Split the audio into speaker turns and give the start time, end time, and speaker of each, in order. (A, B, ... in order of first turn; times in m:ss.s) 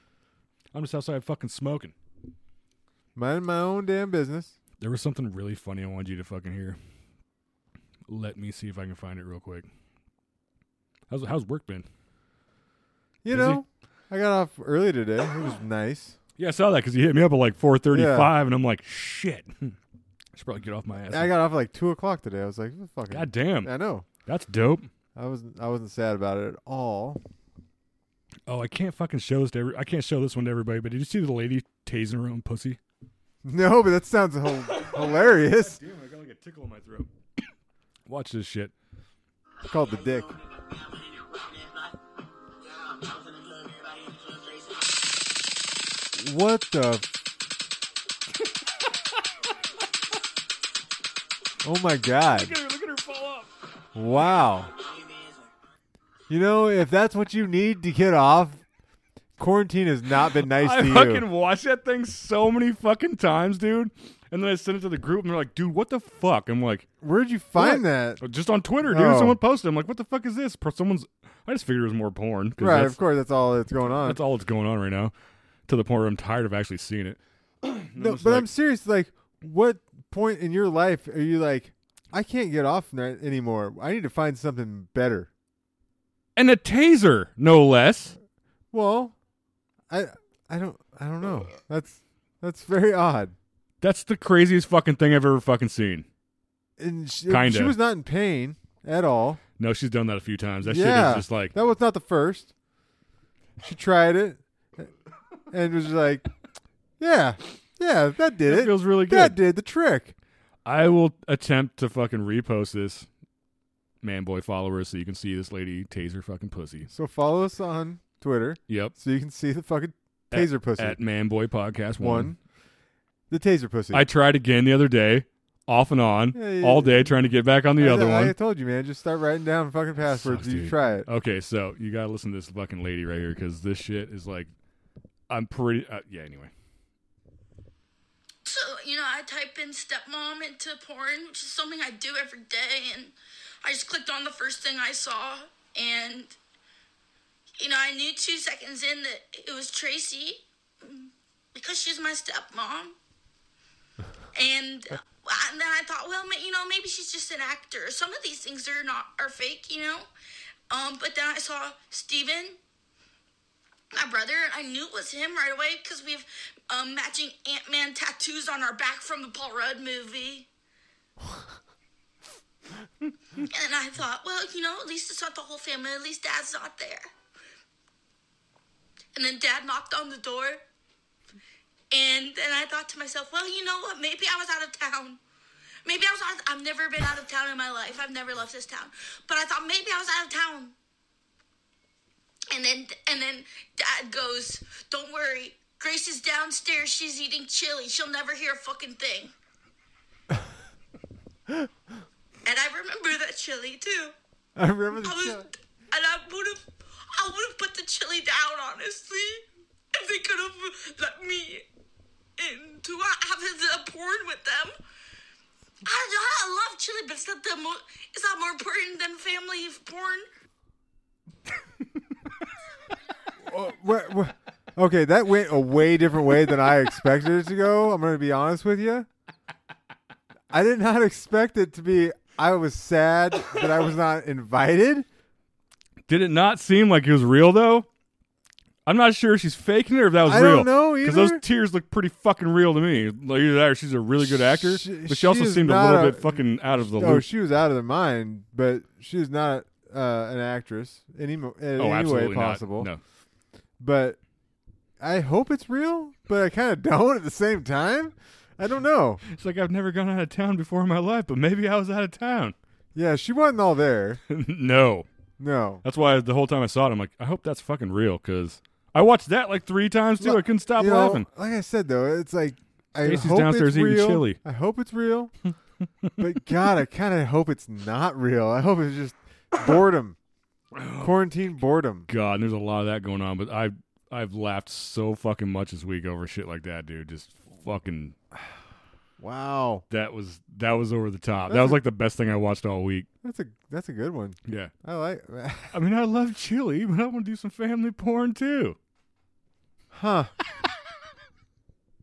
0:00.7-0:01.9 A
0:03.1-0:04.5 B
0:04.8-0:06.8 A
0:08.1-0:09.7 A
0:11.1-0:11.8 A
0:13.2-0:16.2 B
0:13.3-0:13.6 A
0:16.4-0:19.8 A
0:17.9-0:18.3 B
0:20.3-0:21.3 A
0:21.1-0:24.0 B
0:23.1-0:23.7 A
0:24.2-0:24.9 A
0:25.1-0:27.2 B
0:28.5-0:32.8 A
0:33.4-0:35.8 B
0:34.7-0:37.1 A
0:38.1-0:38.7 A
0:39.6-0:40.4 B
0:46.1-0:47.0 B
0:51.6-0:52.5 B
0:52.3-0:53.5 A
0:53.9-0:54.7 B
0:56.3-0:58.6 B
0:59.4-1:01.2 B
1:00.5-1:06.9 A
1:07.0-1:08.2 B
1:07.6-1:13.0 A
1:08.9-1:09.4 B
1:12.6-1:14.2 B
1:14.0-1:15.1 A
1:15.7-1:18.5 A
1:18.0-1:25.3 B
1:26.4-1:28.1 A
1:28.7-1:29.1 B
1:29.9-1:33.3 B
1:33.8-1:36.1 A
1:36.8-1:39.4 B
1:37.3-1:37.7 A
1:39.6-1:41.5 A
1:40.6-1:42.5 B
1:43.6-1:44.9 B
1:45.5-1:46.3 B
1:47.0-1:50.1 B
1:48.4-1:49.4 A
1:50.6-1:53.1 A
1:54.0-1:56.9 A
1:56.9-2:01.0 B
1:58.7-1:58.9 A
2:00.3-2:02.3 A
2:02.0-2:02.4 B
2:03.3-2:04.0 B
2:03.9-2:08.3 A
2:06.3-2:07.1 B
2:07.8-2:11.1 B
2:10.1-2:14.5 A
2:15.3-2:16.5 A
2:18.4-2:26.3 C
2:27.6-2:32.9 C
2:34.3-2:40.1 C
2:40.7-2:42.6 C
2:43.9-2:50.5 C
2:53.4-2:57.0 C
2:59.1-3:00.6 C
3:01.9-3:05.2 C
3:05.8-3:10.7 C
3:12.5-3:19.3 C
3:22.4-3:24.1 C
3:24.6-3:25.4 B
3:25.0-3:31.6 C
3:32.4-3:34.7 C
3:35.8-3:40.2 C
3:43.4-3:49.1 B
3:50.5-3:55.0 B
3:56.1-3:57.9 A
3:58.8-4:07.2 A
4:00.2-4:01.4 B
4:04.2-4:12.9 B
4:11.8-4:13.0 A
4:13.8-4:14.2 B
4:15.0-4:19.2 B
4:19.2-4:22.5 A
4:22.9-4:24.2 B
4:24.3-4:25.1 A
4:25.4-4:25.8 B
4:25.8-4:31.3 A
4:30.2-4:35.3 B
4:33.0-4:34.4 A
4:36.2-4:40.2 B
4:40.7-4:41.1 A
4:41.0-4:42.1 B
4:42.1-4:48.2 A
4:49.2-4:49.8 B
4:49.9-4:53.1 A
4:51.5-4:51.8 B
4:53.2-4:55.7 B
4:54.5-4:54.7 A
4:55.7-4:58.8 A
4:59.9-5:00.3 B